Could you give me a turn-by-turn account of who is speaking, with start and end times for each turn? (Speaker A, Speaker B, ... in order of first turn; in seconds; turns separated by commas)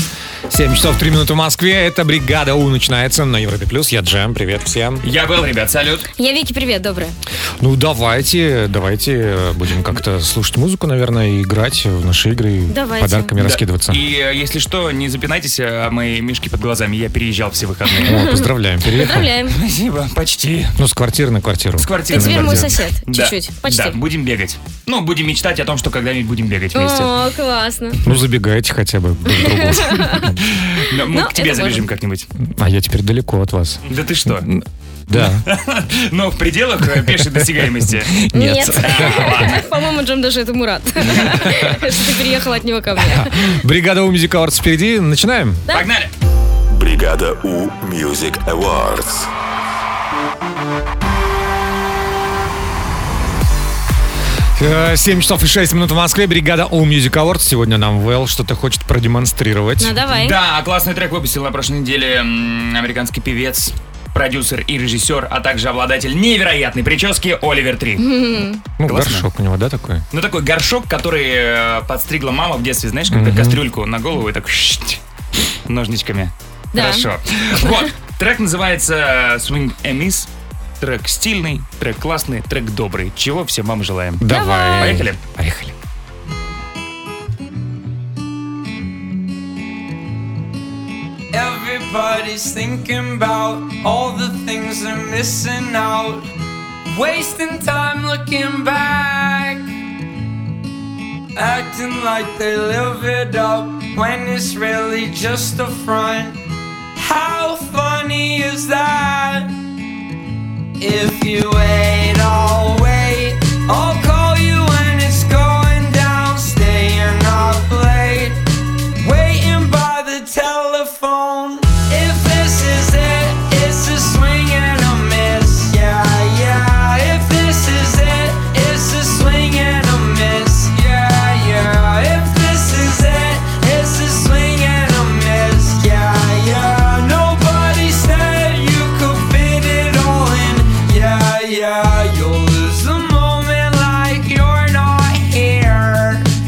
Speaker A: 0.5-5.0, Speaker B: 5.0-6.1, Speaker C: 6.2-7.2, Speaker A: 7.6-14.0, Speaker C: 12.7-13.3, Speaker B: 13.4-18.2, Speaker C: 17.9-19.6, Speaker A: 18.1-19.3, Speaker B: 19.5-20.8, Speaker A: 20.8-22.7, Speaker B: 21.8-27.1, Speaker C: 22.1-24.0, Speaker C: 26.8-28.0, Speaker A: 28.1-30.3, Speaker C: 29.3-30.3, Speaker B: 30.5-32.3, Speaker C: 31.1-31.8, Speaker A: 32.4-35.4, Speaker B: 33.9-34.5, Speaker B: 35.1-38.2, Speaker A: 37.0-39.5, Speaker C: 38.3-43.5, Speaker B: 38.8-39.6, Speaker B: 41.0-41.5, Speaker A: 43.0-45.6, Speaker B: 45.7-46.1, Speaker D: 46.7-49.3, Speaker A: 54.6-60.0, Speaker C: 59.8-60.4, Speaker B: 60.1-68.0, Speaker C: 68.0-68.6, Speaker A: 68.8-70.0, Speaker B: 68.8-69.3, Speaker B: 70.1-75.0, Speaker A: 73.1-73.6, Speaker B: 75.7-80.3, Speaker C: 76.7-77.1, Speaker B: 80.8-84.3, Speaker A: 84.2-85.7, Speaker C: 84.3-85.0, Speaker B: 84.8-85.2, Speaker E: 91.3-96.3, Speaker E: 96.9-99.7, Speaker E: 101.3-106.4, Speaker E: 107.0-109.5, Speaker E: 110.8-118.4, Speaker E: 119.0-146.3